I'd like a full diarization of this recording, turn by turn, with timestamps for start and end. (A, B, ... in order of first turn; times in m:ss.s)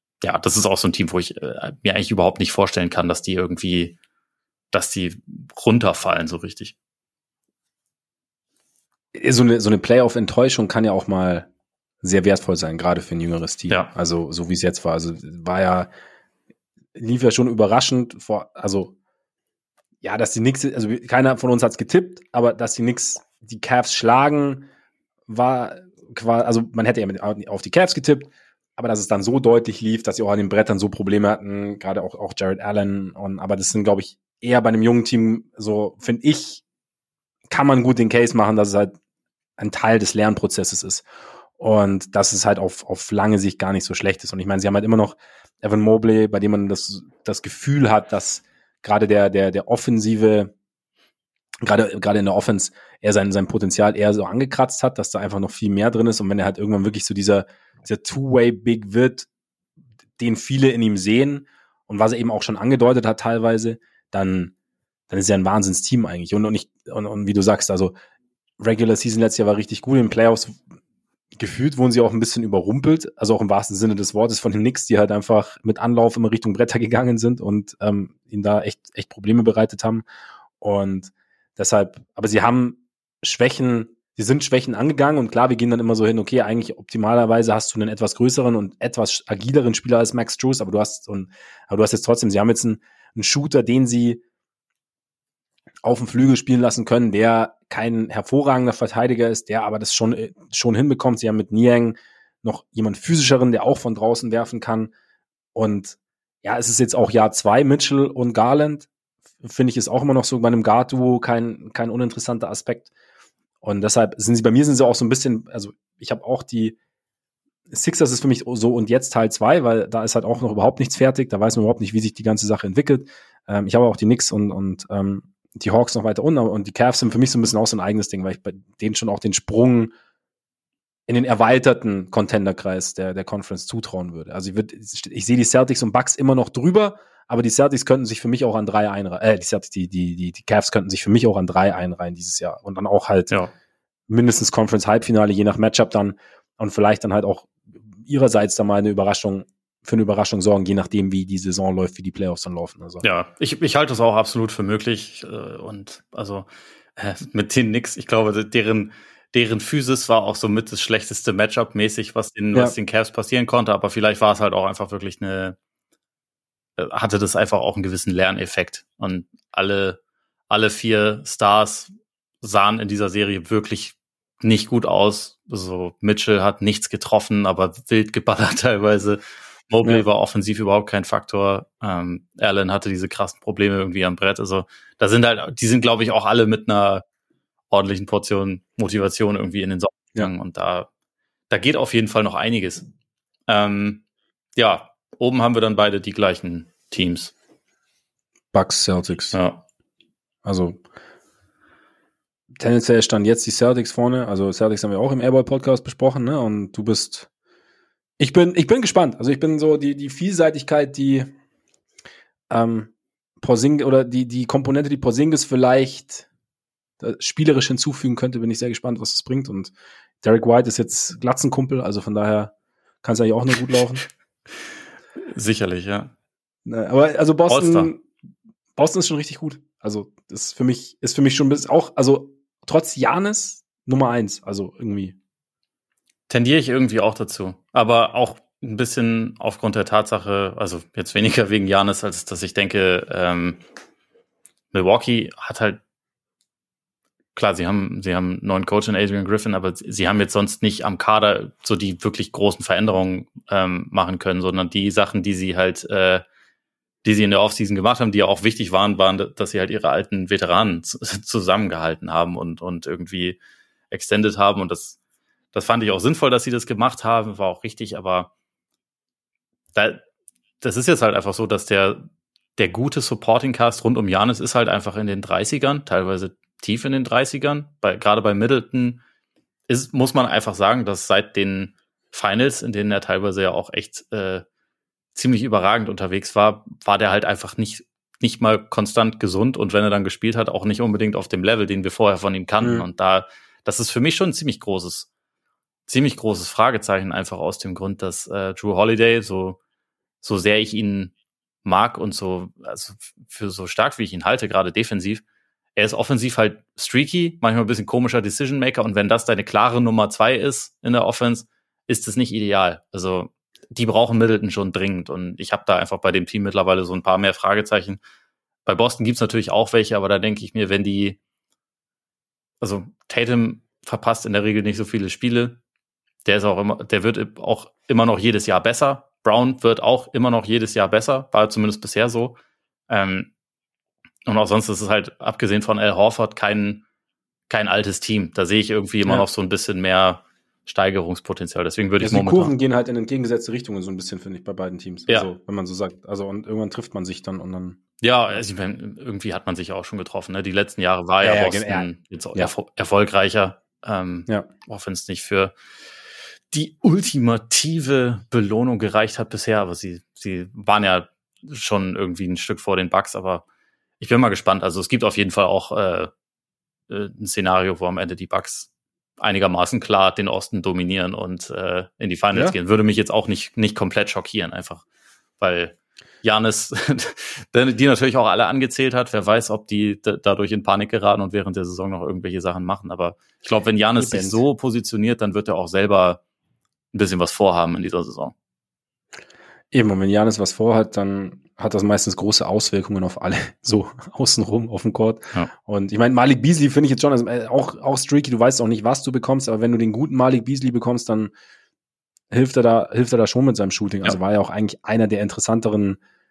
0:00.2-0:04.0 A
0:04.7-0:06.8 A
0:09.1-0:11.5 B
0:12.0-0:15.9 B
0:17.0-0:18.9 B
0:20.0-0:24.7 B
0:25.3-0:36.6 B
0:37.5-0:39.0 B
0:39.6-0:41.1 B
0:41.6-0:50.5 B
0:51.6-0:59.3 B
1:00.2-1:04.5 B
1:05.1-1:07.9 B
1:08.6-1:10.6 B
1:11.4-1:20.0 B
1:20.6-1:34.2 B
1:35.8-1:44.9 B
1:45.6-1:48.9 B
1:49.4-1:52.9 B
1:53.6-1:56.8 B
1:57.7-2:09.9 B
2:11.1-2:23.3 B
2:24.1-2:33.0 B
2:33.0-2:45.6 A
2:46.8-2:51.9 A
2:52.4-3:07.0 A
3:07.7-3:10.9 A
3:11.5-3:12.8 A
3:13.5-3:14.0 A
3:14.6-3:17.3 A
3:18.5-3:19.4 B
3:19.3-3:19.6 A
3:20.4-3:20.8 B
3:22.6-3:27.3 B
3:28.2-3:31.3 B
3:32.5-3:36.3 B
3:37.0-3:42.5 B
3:43.0-3:44.0 B
3:45.3-3:46.1 A
3:46.7-3:48.1 B
3:47.5-3:47.9 A
3:48.8-3:55.2 B
3:56.3-4:03.6 A
4:04.7-4:05.8 A
4:07.4-4:16.2 A
4:17.0-4:23.4 A
4:23.9-4:25.0 A
4:25.5-4:28.3 A
4:29.7-4:30.0 A
4:30.6-4:39.0 A
4:39.7-4:44.4 A
4:45.2-4:55.1 A
4:52.6-4:52.9 B
4:55.9-4:59.6 A
5:00.2-5:05.2 A
5:05.8-5:18.0 A
5:18.7-5:21.2 A
5:22.6-5:25.6 A
5:26.2-5:32.4 A
5:32.9-5:33.3 A
5:34.3-5:36.8 A
5:37.5-5:42.5 A
5:42.0-5:47.8 B
5:48.0-5:55.5 A
5:51.2-5:52.5 B
5:56.5-6:03.4 A
6:04.0-6:06.1 A
6:06.9-6:08.7 A
6:09.2-6:14.8 A
6:15.4-6:26.2 A
6:24.0-6:24.4 B
6:26.9-6:28.3 A
6:29.7-6:41.3 B
6:42.3-6:46.0 B